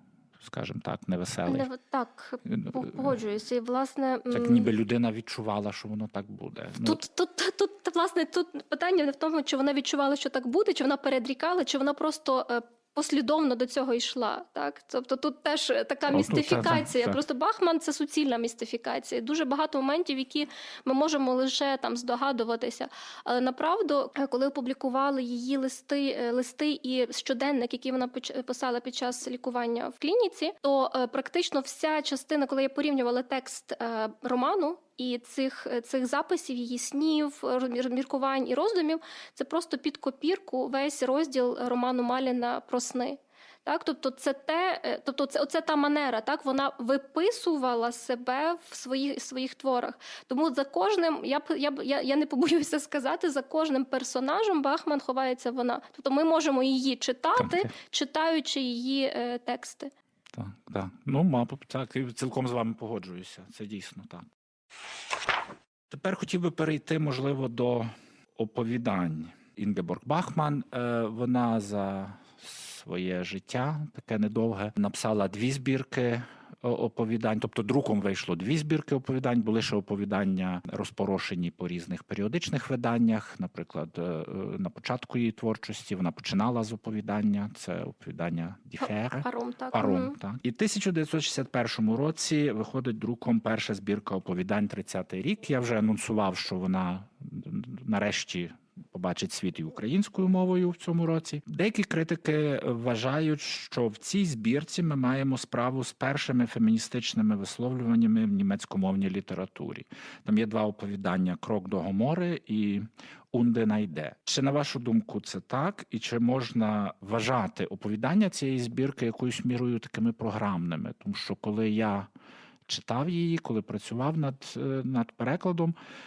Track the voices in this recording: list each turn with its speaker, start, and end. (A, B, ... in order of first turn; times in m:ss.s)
0:00.4-0:01.7 A
0:01.5-0:04.7 B
0:02.5-0:03.2 A
0:04.3-0:07.0 A
0:06.8-0:59.9 B
0:16.1-0:17.2 A
0:57.4-0:57.7 A
1:00.3-1:04.3 A
1:05.9-2:02.1 A
1:29.2-1:30.2 B
2:02.7-2:05.8 A